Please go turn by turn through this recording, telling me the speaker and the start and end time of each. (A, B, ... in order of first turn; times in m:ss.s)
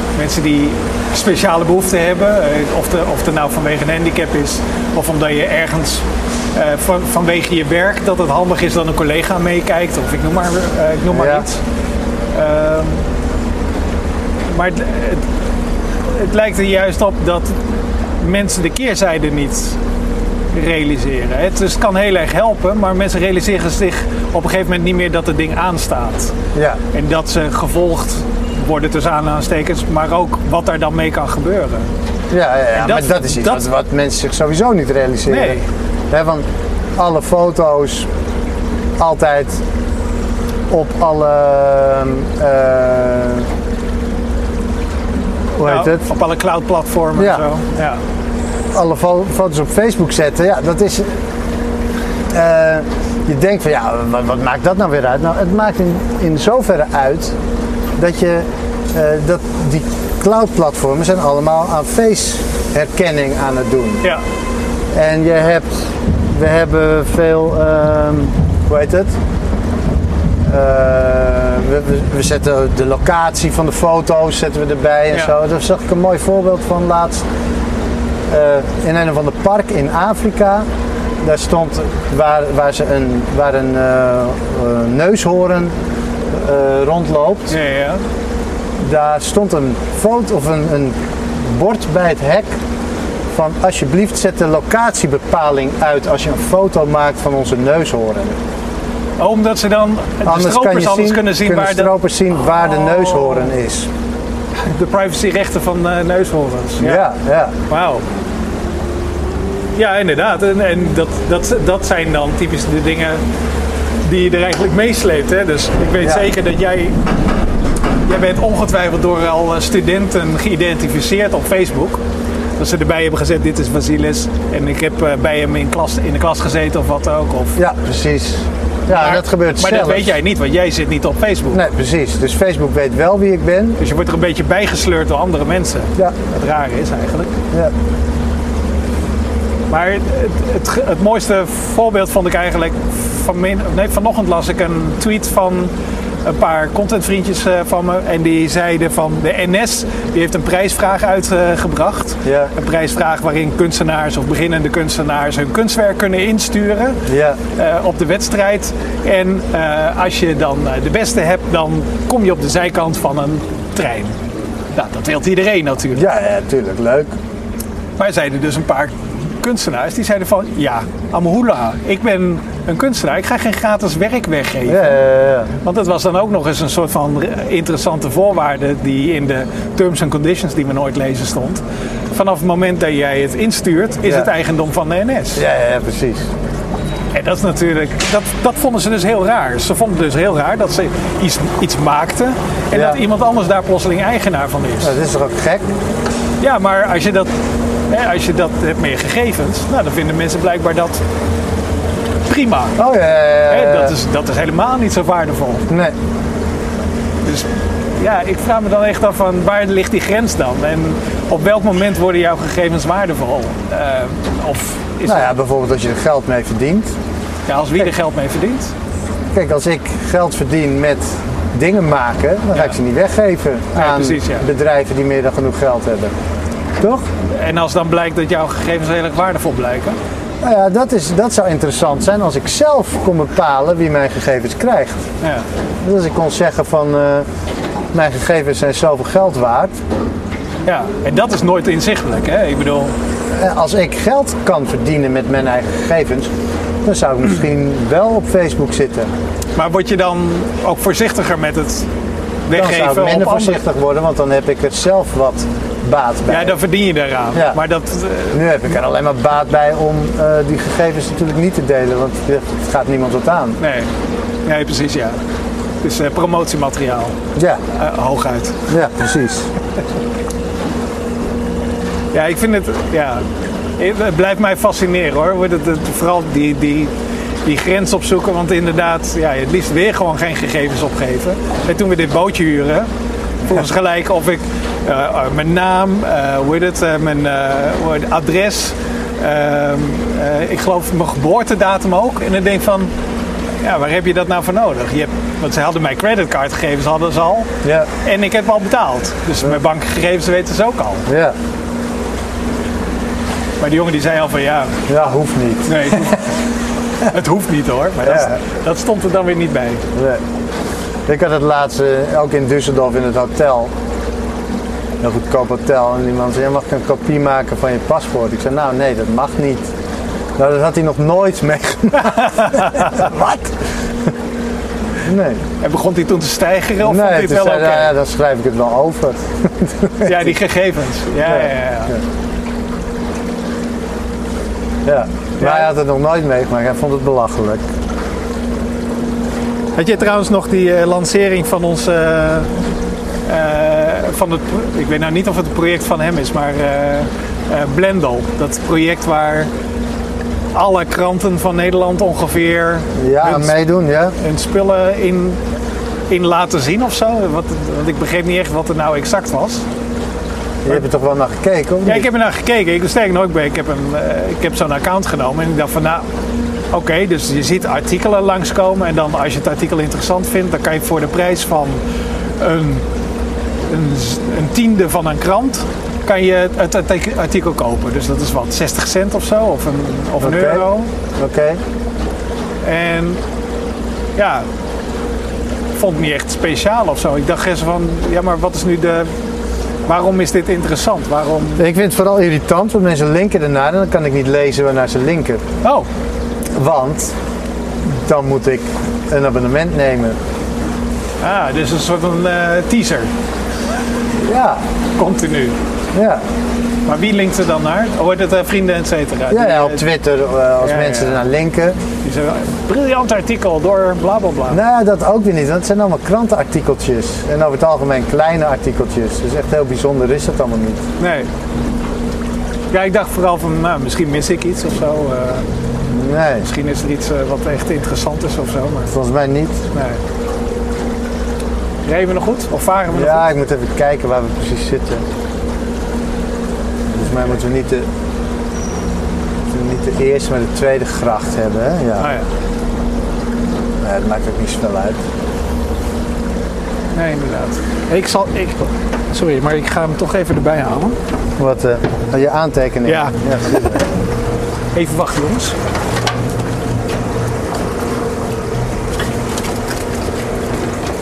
0:00.2-0:11.6 A
0:11.1-0:11.4 B
0:12.3-0:13.0 A
0:14.5-0:15.2 A
0:16.0-0:17.6 A
0:18.2-0:19.8 A
0:20.5-0:26.3 A
0:26.5-0:26.8 B
0:26.9-0:31.9 A
0:32.3-0:36.4 B
0:32.7-0:33.6 A
0:35.3-0:35.6 A
0:37.0-0:38.1 B
0:39.0-0:39.6 B
0:40.7-0:43.5 B
0:45.6-0:48.0 A
0:45.6-0:46.0 B
0:47.2-0:47.4 B
0:48.7-0:51.2 B
0:52.3-0:57.4 B
0:58.0-1:04.0 B
1:04.9-1:09.1 B
1:10.4-1:17.2 B
1:18.3-1:20.6 B
1:21.2-1:25.7 B
1:26.3-1:27.5 B
1:27.5-1:28.0 A
1:28.8-1:32.5 B
1:33.3-1:38.4 B
1:39.2-1:41.9 A
1:40.2-1:43.9 B
1:44.6-1:47.0 A
1:46.8-1:47.5 B
1:47.7-1:48.0 A
1:49.8-1:53.2 A
1:54.0-1:57.0 A
1:58.1-2:02.0 A
2:02.6-2:07.6 A
2:07.6-2:10.1 B
2:08.9-2:11.6 A
2:11.5-2:13.8 B
2:13.8-2:17.3 A
2:19.7-2:25.7 A
2:26.2-2:37.0 A
2:32.2-2:32.5 B
2:37.1-2:37.4 B
2:37.6-2:44.1 A
2:44.8-2:46.0 A
2:45.9-2:47.1 B
2:48.0-2:55.0 A
2:54.7-2:55.5 B
2:55.6-3:05.4 A
3:05.4-3:06.3 B
3:07.1-3:14.9 A
3:12.7-3:13.0 B
3:14.8-3:15.6 B
3:16.4-3:17.3 A
3:17.9-3:21.0 A
3:22.3-3:22.8 A
3:22.8-3:23.9 B
3:23.5-3:25.6 A
3:25.7-3:25.9 B
3:28.0-3:35.3 A
3:35.0-3:36.9 B
3:37.5-3:38.7 A
3:39.3-3:46.1 B
3:43.7-3:44.4 A
3:46.8-3:47.0 B
3:47.2-3:50.0 A
3:50.4-3:55.0 B
3:55.8-3:57.2 B
3:57.9-3:59.8 B
4:00.6-4:02.9 A
4:03.3-4:06.3 B
4:06.8-4:09.1 B
4:09.6-4:11.9 A
4:12.5-4:13.6 A
4:12.5-4:16.6 B
4:16.3-4:18.4 A
4:18.3-4:23.6 B
4:23.6-4:23.9 A
4:24.4-4:25.2 A
4:25.8-4:27.1 A
4:27.4-4:27.6 B
4:27.7-4:28.6 A
4:28.7-4:29.5 B
4:32.1-4:33.2 A
4:33.8-4:36.9 A
4:37.4-4:42.9 A
4:43.4-4:52.9 A
4:53.6-4:57.5 A
4:58.0-5:01.0 A
5:01.1-5:01.3 B
5:03.6-5:04.8 A
5:04.9-5:06.1 B
5:05.7-5:06.2 A
5:07.0-5:09.8 A
5:08.0-5:08.3 B
5:09.9-5:10.2 B
5:11.1-5:13.7 B
5:15.0-5:19.7 B
5:20.4-5:23.6 B
5:22.1-5:23.0 A
5:25.0-5:25.4 B
5:25.6-5:27.9 A
5:26.8-5:30.3 B
5:30.0-5:31.9 A
5:31.2-5:32.0 B
5:34.8-5:37.6 B
5:35.4-5:35.7 A
5:39.8-5:42.5 A
5:43.3-5:49.5 A
5:50.5-5:53.5 A
5:53.0-5:54.2 B
5:54.2-5:55.4 A
5:56.1-5:59.6 A
6:00.6-6:02.1 B
6:01.8-6:06.0 A
6:06.7-6:11.8 A
6:12.4-6:12.8 A
6:13.7-6:20.9 A
6:20.2-6:21.6 B
6:22.6-6:23.2 A
6:24.2-6:24.4 A
6:25.7-6:29.1 A
6:29.9-6:31.6 A
6:31.6-6:35.4 B
6:36.5-6:37.1 B
6:37.8-6:40.2 B
6:41.2-6:43.1 A
6:44.2-6:44.6 B
6:45.0-6:45.5 A
6:45.9-6:46.2 B
6:46.8-6:49.8 A
6:49.3-6:51.8 B
6:50.6-6:51.2 A
6:52.0-6:54.6 A
6:54.5-7:00.8 B
7:01.0-7:01.3 A
7:02.7-7:05.4 A
7:05.9-7:06.5 B
7:06.4-7:08.9 A
7:08.9-7:09.6 B
7:09.7-7:10.0 A
7:11.8-7:13.2 A
7:12.9-7:15.0 B
7:16.9-7:17.8 B
7:19.5-7:22.1 B
7:22.0-7:22.2 A
7:23.8-7:25.0 B
7:27.0-7:31.0 A
7:31.4-7:33.8 B
7:32.8-7:33.8 A
7:34.7-7:35.6 A